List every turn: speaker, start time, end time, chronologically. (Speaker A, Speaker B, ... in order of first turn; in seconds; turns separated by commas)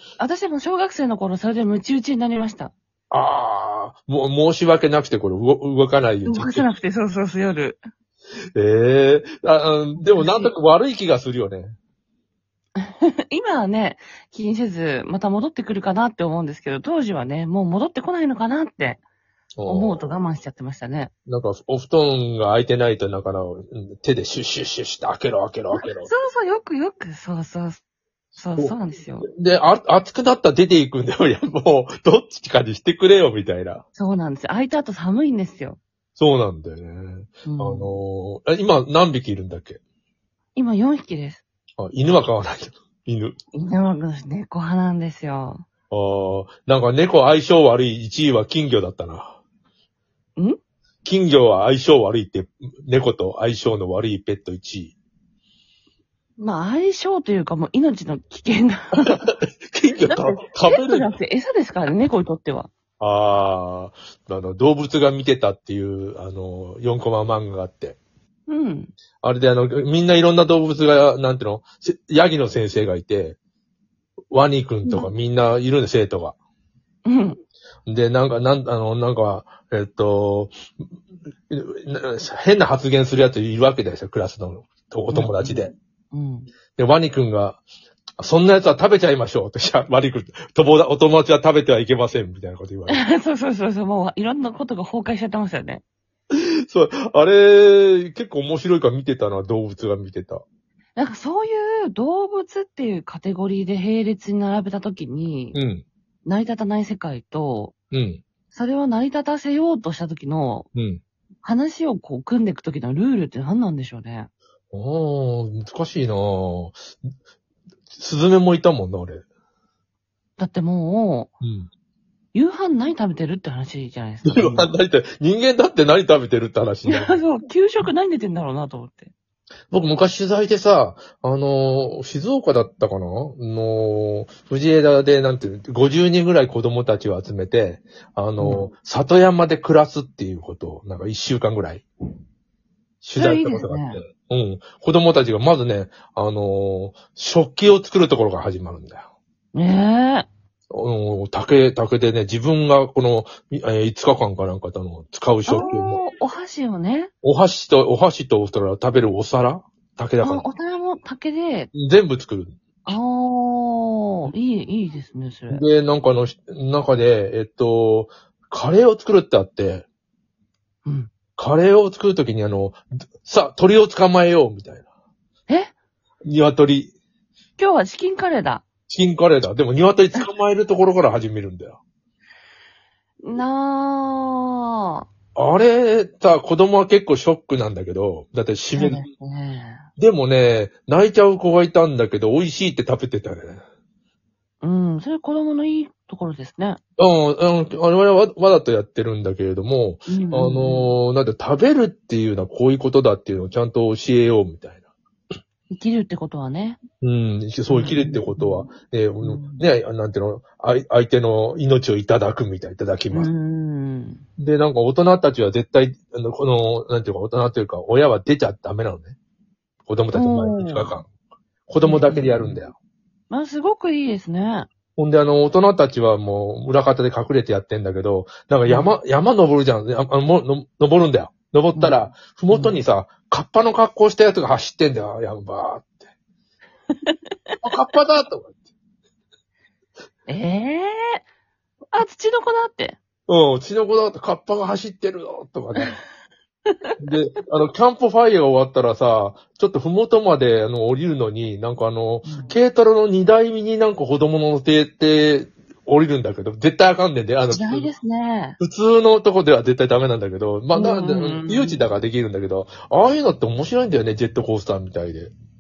Speaker A: 0.2-2.7, Speaker B: 3.1-6.7, Speaker A: 6.2-7.8, Speaker B: 8.6-11.8, Speaker A: 10.0-10.5, Speaker A: 12.8-19.0, Speaker B: 19.6-20.1, Speaker A: 19.7-21.1, Speaker B: 21.3-26.1, Speaker A: 25.8-27.8, Speaker A: 28.4-29.3, Speaker B: 28.6-33.9, Speaker A: 34.0-35.8, Speaker B: 36.2-39.8, Speaker A: 37.5-37.9, Speaker A: 40.5-41.4, Speaker B: 41.8-43.4, Speaker A: 43.5-45.6, Speaker B: 45.9-49.4, Speaker B: 51.0-54.9, Speaker A: 56.4-59.2, Speaker B: 59.0-61.1, Speaker A: 60.1-62.7, Speaker B: 63.0-68.0, Speaker A: 68.5-68.9, Speaker B: 69.2-73.4, Speaker B: 74.3-76.4, Speaker A: 77.1-77.4, Speaker B: 77.9-80.5, Speaker B: 81.5-85.7, Speaker A: 85.1-86.5, Speaker B: 86.8-87.6, Speaker B: 88.2-93.1, Speaker A: 92.9-95.8, Speaker B: 96.3-100.4, Speaker A: 101.0-105.6, Speaker B: 105.5-105.8, Speaker A: 106.2-107.7, Speaker B: 107.9-108.2, Speaker A: 108.5-110.7, Speaker B: 110.8-111.0, Speaker A: 111.4-114.3, Speaker B: 114.7-116.8, Speaker B: 117.9-119.2, Speaker A: 120.4-121.3, Speaker B: 121.4-121.7, Speaker A: 122.3-124.7, Speaker B: 124.2-127.2, Speaker A: 126.9-129.1, Speaker B: 129.7-141.8, Speaker A: 138.4-138.7, Speaker B: 143.0-149.1, Speaker A: 143.2-144.0, Speaker A: 149.5-150.3, Speaker B: 150.7-156.0, Speaker A: 155.5-157.1, Speaker B: 157.2-160.5, Speaker A: 160.2-161.7, Speaker B: 161.7-162.6, Speaker A: 162.9-165.6, Speaker B: 165.5-169.8, Speaker A: 170.8-171.1, Speaker B: 171.4-174.8, Speaker B: 176.2-176.9, Speaker A: 177.6-178.6, Speaker B: 178.9-181.8, Speaker A: 183.2-185.1, Speaker B: 185.3-189.0, Speaker A: 188.8-189.8, Speaker B: 190.0-193.6, Speaker A: 194.6-196.8, Speaker B: 197.0-204.8, Speaker A: 200.1-200.9, Speaker A: 205.7-206.8, Speaker B: 207.0-213.3, Speaker A: 207.7-208.7, Speaker A: 209.2-209.6, Speaker A: 213.1-214.2, Speaker B: 214.4-219.2, Speaker B: 219.9-221.1, Speaker A: 220.1-221.0, Speaker B: 221.7-222.8, Speaker A: 221.8-222.6, Speaker A: 223.3-224.7, Speaker B: 225.0-236.1, Speaker A: 228.7-229.0, Speaker A: 232.5-232.8, Speaker B: 237.6-238.6, Speaker A: 240.3-241.2, Speaker A: 241.9-243.0, Speaker B: 243.3-246.0, Speaker B: 247.0-257.9, Speaker A: 252.3-252.5, Speaker A: 257.5-258.6, Speaker B: 258.6-265.3, Speaker A: 260.7-261.9